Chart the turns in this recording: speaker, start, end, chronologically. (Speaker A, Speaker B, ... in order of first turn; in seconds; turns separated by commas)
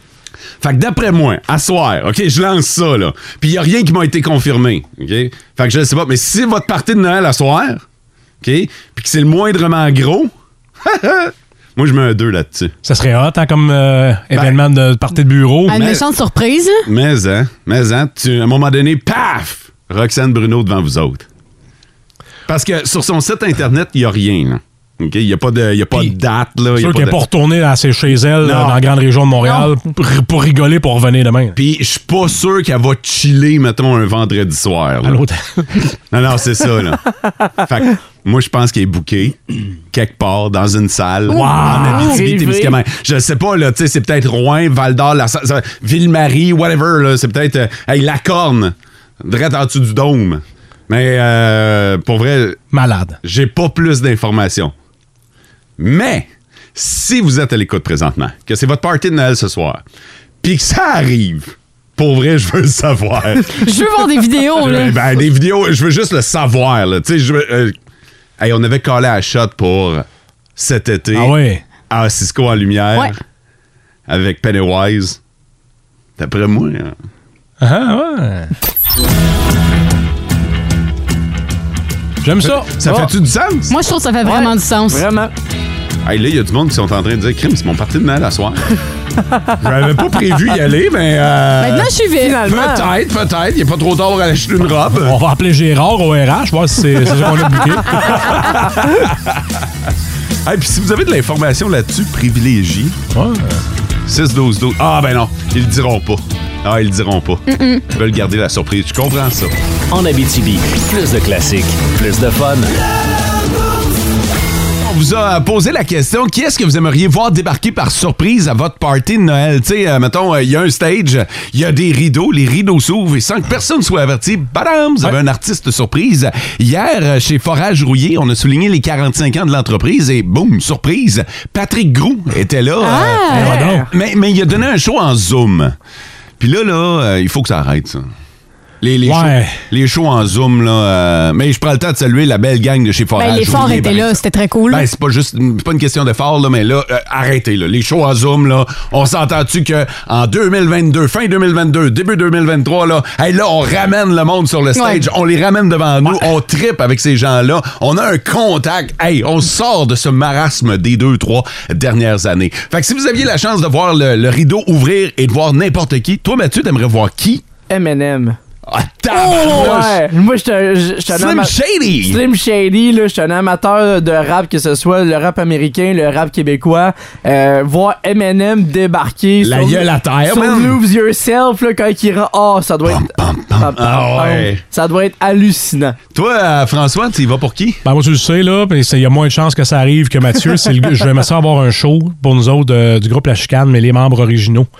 Speaker A: 0.6-7.8, Speaker A: 8.4-10.3, Speaker A: 10.8-12.7, Speaker B: 12.8-15.8, Speaker A: 14.3-14.6, Speaker C: 15.7-16.9, Speaker A: 15.7-16.0, Speaker A: 16.9-21.3, Speaker A: 22.5-27.2, Speaker B: 26.7-31.6, Speaker A: 28.4-28.8, Speaker C: 29.4-29.7, Speaker A: 31.6-35.2, Speaker B: 35.0-35.6, Speaker A: 36.1-37.0, Speaker A: 37.6-39.4, Speaker A: 39.9-52.6, Speaker B: 41.3-42.2, Speaker D: 41.4-42.8, Speaker B: 52.7-53.2, Speaker A: 53.2-54.7, Speaker A: 55.8-59.8, Speaker A: 60.4-63.6, Speaker C: 63.6-65.0, Speaker A: 64.6-67.8, Speaker A: 68.4-71.4, Speaker B: 71.1-71.6, Speaker A: 71.9-73.2, Speaker A: 74.1-75.2, Speaker A: 76.2-77.0, Speaker B: 77.6-78.5, Speaker B: 82.2-82.8, Speaker A: 82.4-83.7, Speaker D: 82.8-83.1, Speaker C: 83.7-85.0, Speaker D: 84.2-85.3, Speaker A: 86.0-88.7, Speaker A: 89.6-91.9, Speaker C: 91.6-92.4, Speaker D: 92.2-92.9, Speaker A: 92.4-95.2, Speaker B: 94.9-98.6, Speaker A: 100.5-103.0, Speaker B: 103.1-103.6, Speaker A: 104.1-109.5, Speaker C: 107.5-107.8, Speaker E: 109.9-112.7, Speaker A: 114.8-135.8, Speaker C: 132.8-133.6, Speaker B: 133.3-133.9, Speaker D: 133.4-133.9, Speaker A: 136.4-138.1, Speaker A: 138.8-167.4, Speaker B: 139.0-139.6, Speaker C: 143.2-144.9, Speaker C: 154.8-155.1, Speaker D: 167.7-168.4, Speaker A: 168.7-170.0, Speaker C: 169.2-169.5, Speaker D: 169.2-186.0, Speaker A: 171.1-172.2, Speaker A: 179.4-180.8, Speaker A: 182.8-184.6, Speaker A: 186.1-187.8, Speaker B: 187.8-194.7